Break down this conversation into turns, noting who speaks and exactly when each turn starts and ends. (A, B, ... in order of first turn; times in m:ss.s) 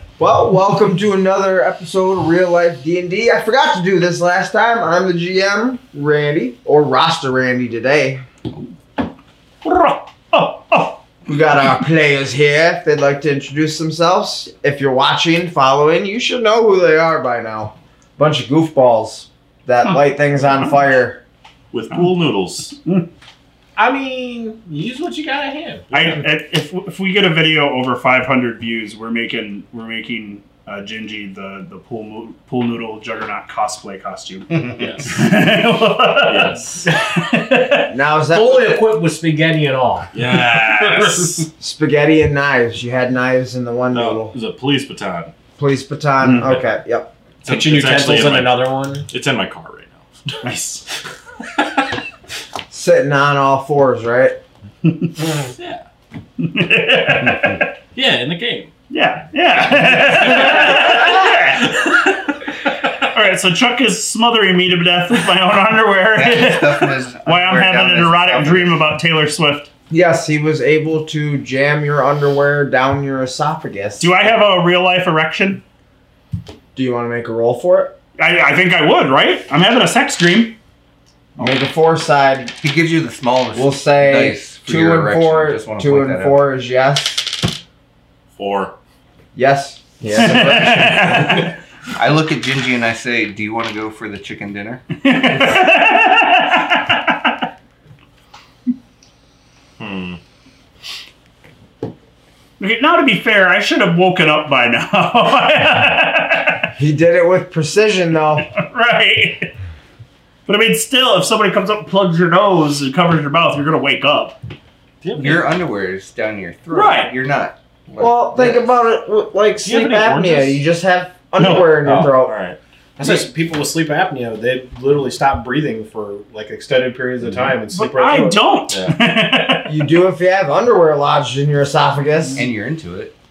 0:00.2-0:08.2 A
0:09.6-0:11.1 B
0:11.3-0:21.2 A
0:21.7-0:22.8 C
0:23.8-0:25.9 D
0:25.9-0:34.5 B
0:34.8-0:35.2 C
0:35.0-0:38.0 B
0:36.3-0:36.9 C
0:37.9-0:38.9 A
0:38.3-0:41.4 D
0:40.1-0:41.5 C
0:41.6-0:44.3 A
0:43.9-0:45.3 C
0:45.6-0:47.1 A
0:47.4-0:50.4 C
0:47.5-0:49.1 D
0:50.4-0:50.8 B
0:52.7-0:54.4 A
0:54.9-0:55.1 B
0:55.6-0:55.8 C
0:56.4-0:57.7 B
0:57.9-0:58.7 C
0:58.9-1:01.7 B
0:59.7-1:02.0 C
1:03.0-1:09.7 B
1:06.1-1:08.8 E
1:09.9-1:14.1 A
1:14.0-1:15.6 B
1:16.8-1:18.0 A
1:18.2-1:20.6 B
1:21.4-1:22.6 A
1:22.6-1:26.4 E
1:23.6-1:27.5 A
1:28.4-1:28.8 C
1:29.4-1:31.4 A
1:30.2-1:31.5 B
1:32.0-1:34.8 E
1:35.0-1:37.2 B
1:39.8-1:40.2 C
1:42.6-1:46.7 B
1:46.8-1:48.5 A
1:48.6-1:49.5 B
1:50.5-1:54.4 B
1:55.0-1:55.4 C
1:55.2-1:58.8 E
1:56.7-1:57.1 B
1:58.0-2:02.4 A
1:59.6-2:00.6 C
2:01.4-2:01.8 B
2:01.8-2:02.6 C
2:03.0-2:08.4 D
2:07.2-2:07.6 C
2:07.7-2:09.7 B
2:08.7-2:09.0 C
2:09.7-2:12.4 A
2:12.4-2:13.2 E